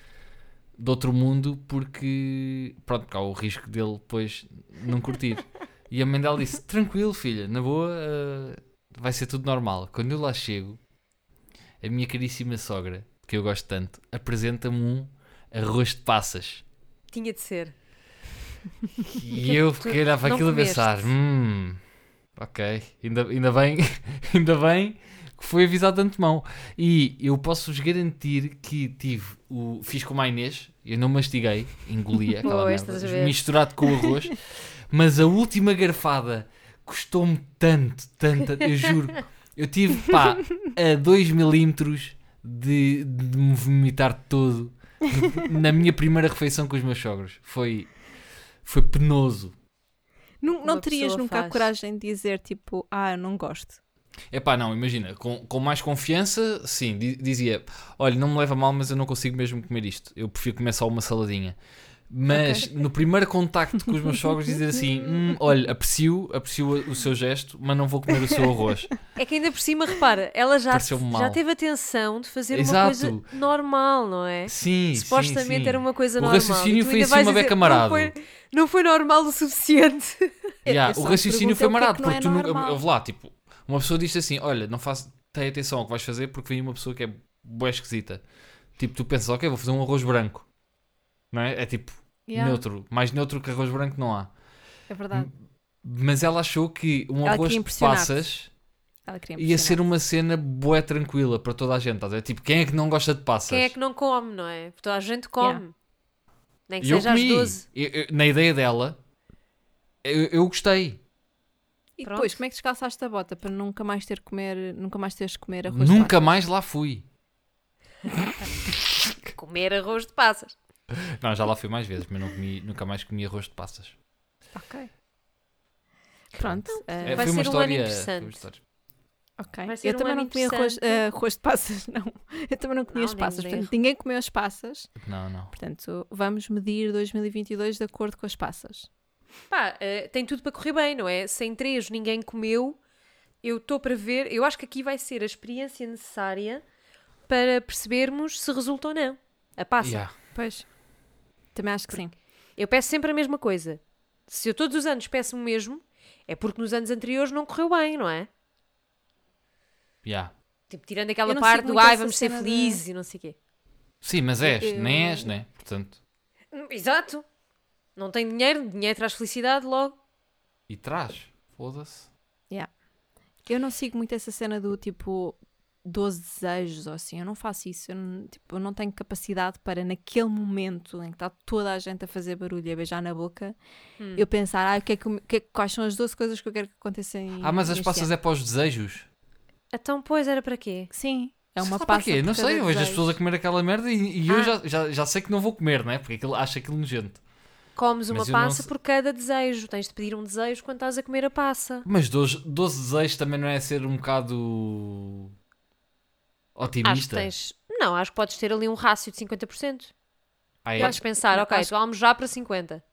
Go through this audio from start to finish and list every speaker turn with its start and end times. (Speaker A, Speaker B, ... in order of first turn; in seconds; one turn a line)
Speaker A: 0.8-10.8
Speaker A: 11.8-16.6
Speaker B: 17.1-17.8
Speaker A: 19.0-21.8
Speaker B: 19.3-21.1
Speaker A: 22.4-47.9
Speaker B: 32.4-33.4
Speaker A: 48.6-49.5
Speaker C: 50.4-53.8
Speaker B: 50.6-51.7
Speaker A: 54.3-61.6
Speaker A: 62.1-68.9
Speaker C: 62.4-62.6
Speaker B: 69.2-80.3
Speaker A: 70.7-71.4
Speaker A: 72.5-73.2
Speaker A: 74.5-78.1
Speaker C: 80.6-82.8
Speaker A: 80.7-88.2
Speaker A: 88.8-90.5
Speaker A: 91.3-94.3
Speaker C: 92.3-92.6
Speaker C: 94.9-95.3
Speaker A: 95.1-98.5
Speaker C: 97.2-98.2
Speaker C: 99.1-99.8
Speaker A: 99.4-103.8
Speaker B: 103.5-105.7
Speaker B: 106.7-107.6
Speaker A: 106.8-109.0
Speaker A: 110.0-111.0
Speaker C: 112.0-116.4
Speaker B: 112.0-112.4
Speaker A: 115.7-117.0
Speaker B: 119.3-120.5
Speaker A: 120.9-124.0
Speaker C: 124.5-124.9
Speaker C: 126.3-127.3
Speaker A: 126.4-128.6
Speaker B: 126.7-128.4
Speaker C: 129.4-134.9
Speaker B: 129.7-131.0
Speaker B: 132.9-133.7
Speaker A: 135.0-135.5
Speaker C: 135.5-138.9
Speaker B: 139.5-142.8
Speaker B: 143.4-146.6
Speaker B: 147.3-150.0
Speaker A: 149.8-150.1
Speaker C: 150.3-150.7
Speaker C: 151.5-152.1
Speaker B: 152.6-158.3
Speaker A: 160.0-160.3
Speaker B: 160.7-163.4
Speaker C: 161.2-162.8
Speaker A: 164.0-166.0
Speaker C: 164.4-165.3
Speaker B: 166.5-167.2
Speaker B: 168.0-170.0
Speaker A: 170.7-172.1
Speaker C: 173.5-183.6
Speaker B: 184.0-184.2
Speaker C: 184.2-188.1
Speaker A: 187.4-189.1
Speaker B: 189.7-190.9
Speaker C: 190.9-193.1
Speaker A: 191.6-197.2
Speaker B: 194.3-194.6
Speaker B: 197.8-201.9
Speaker A: 198.1-198.7
Speaker A: 201.8-205.3
Speaker A: 206.6-207.3
Speaker B: 206.8-209.9
Speaker A: 210.6-211.0
Speaker C: 210.8-211.7
Speaker B: 210.8-212.8